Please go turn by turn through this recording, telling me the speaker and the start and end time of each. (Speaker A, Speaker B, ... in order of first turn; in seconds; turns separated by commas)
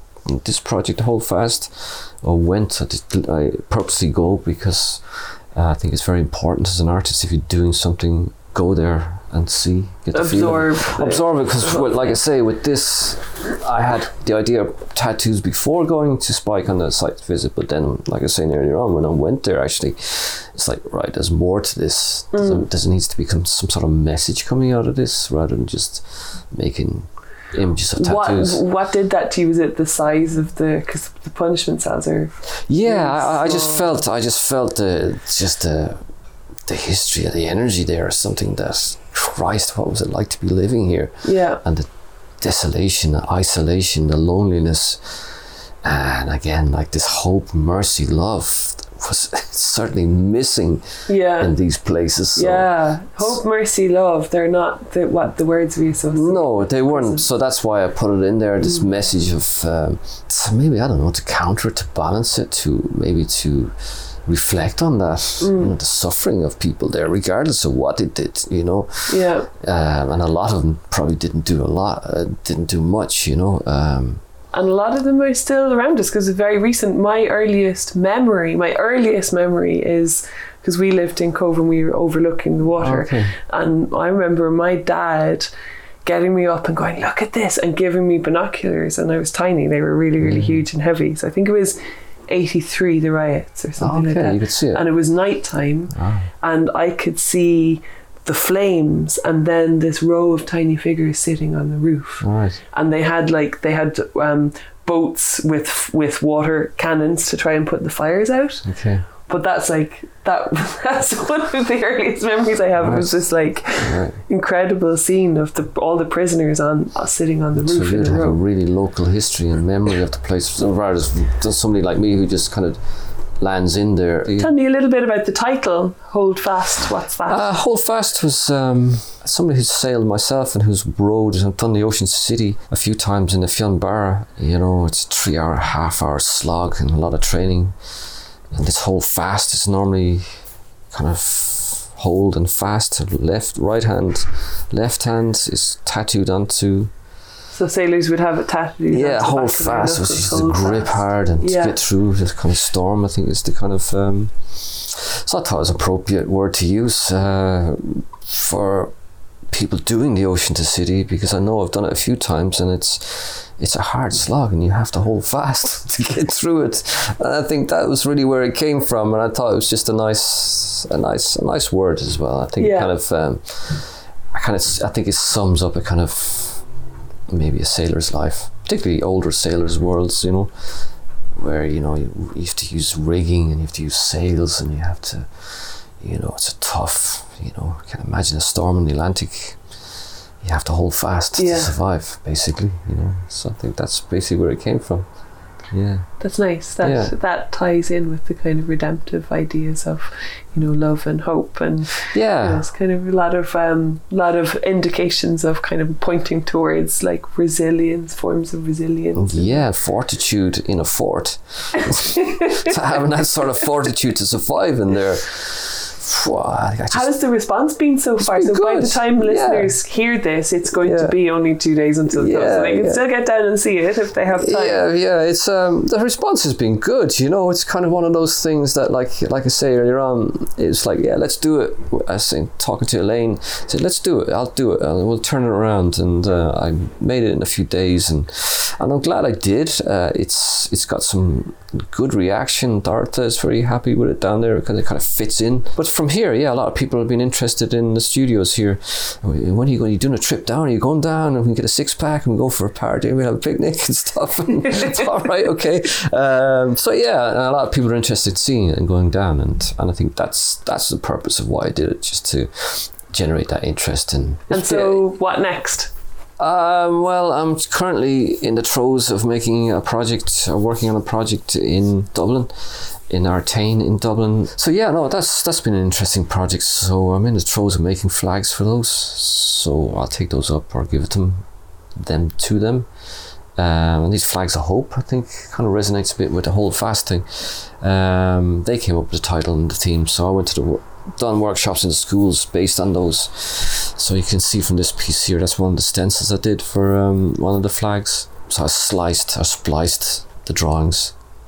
Speaker A: 0.3-28.6, Speaker B: 10.1-12.2, Speaker B: 22.3-22.7, Speaker B: 28.0-34.0, Speaker A: 32.7-36.0, Speaker A: 36.6-41.9, Speaker B: 41.2-41.6, Speaker A: 42.4-50.9, Speaker B: 51.1-51.5, Speaker A: 51.4-53.4, Speaker B: 52.3-57.3, Speaker A: 56.1-74.2, Speaker B: 65.4-65.7, Speaker B: 69.1-69.5, Speaker B: 74.5-85.5, Speaker A: 82.8-83.3, Speaker B: 86.0-91.8, Speaker A: 90.2-90.7, Speaker B: 92.3-108.7, Speaker A: 93.8-94.8, Speaker A: 95.9-96.3, Speaker A: 102.2-102.6, Speaker A: 108.6-109.0, Speaker B: 109.3-118.4, Speaker A: 112.8-114.2, Speaker A: 117.5-122.8, Speaker A: 123.4-124.5, Speaker B: 124.3-127.5, Speaker A: 127.3-138.0, Speaker A: 138.5-146.9, Speaker B: 147.5-151.8, Speaker A: 148.9-158.9, Speaker A: 159.5-176.6, Speaker B: 172.6-172.9, Speaker A: 177.3-195.1, Speaker B: 191.4-191.7, Speaker A: 195.7-196.1, Speaker B: 196.2-209.6, Speaker A: 196.8-197.1, Speaker A: 202.1-202.7, Speaker A: 209.1-217.1, Speaker B: 211.8-212.7, Speaker B: 216.9-224.8, Speaker A: 218.2-219.7, Speaker A: 220.7-221.2, Speaker A: 222.1-223.0, Speaker A: 224.3-265.0, Speaker B: 264.5-265.9, Speaker A: 266.4-281.4, Speaker A: 282.0-282.9, Speaker A: 283.6-301.1